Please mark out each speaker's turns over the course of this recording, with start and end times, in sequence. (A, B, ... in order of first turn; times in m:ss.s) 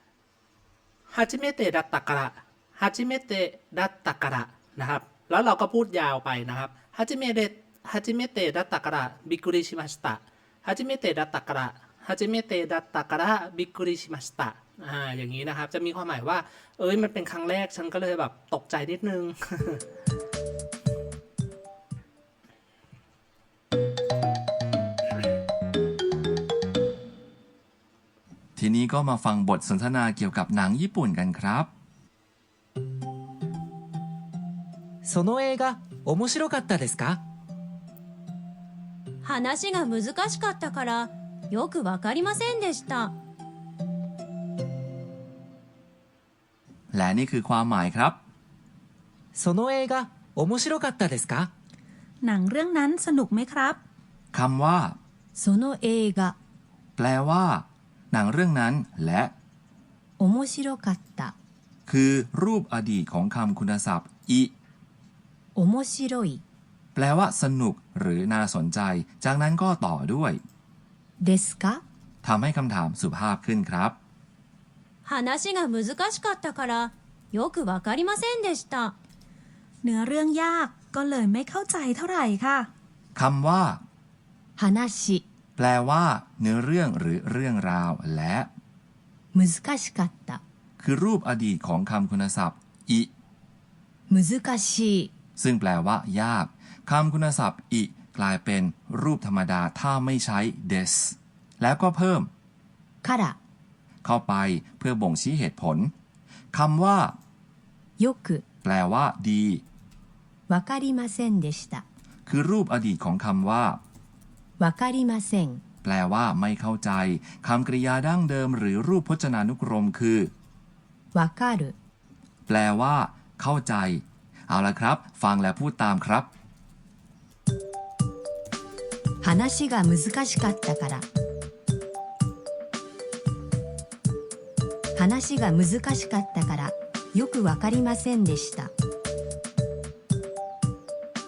0:01.1-0:19.8 A
0:28.6-0:31.7 B
0:35.0-0:37.2 C
0:39.2-0:43.1 D
0:46.9-0:48.2 B
0:49.3-0:51.5 C
0:52.2-0:53.8 E
0:54.3-0:55.0 B
0:55.4-0:56.4 F
0:57.0-0:59.3 B
1:00.2-1:01.3 F
1:01.9-1:04.5 B
1:05.5-1:06.4 F
1:06.9-1:10.4 B
1:11.2-1:11.8 F
1:12.2-1:14.0 B
1:15.0-1:18.9 D
1:19.8-1:22.7 E
1:23.1-1:23.8 B
1:24.6-1:25.2 F
1:25.6-1:28.5 B
1:29.3-1:30.4 F
1:30.8-1:33.1 B
1:34.1-1:35.1 F
1:35.4-1:42.3 B
1:43.0-1:43.4 F
1:44.0-1:45.9 B
1:46.5-1:47.2 B
1:48.0-1:48.4 F
1:48.6-1:49.6 B
1:50.5-1:51.8 F
1:52.2-1:53.8 B
1:54.6-1:55.6 F
1:55.8-2:00.3 B
2:01.1-2:01.7 F
2:02.5-2:06.3 B
2:09.2-2:11.0 F
2:14.9-2:18.7 F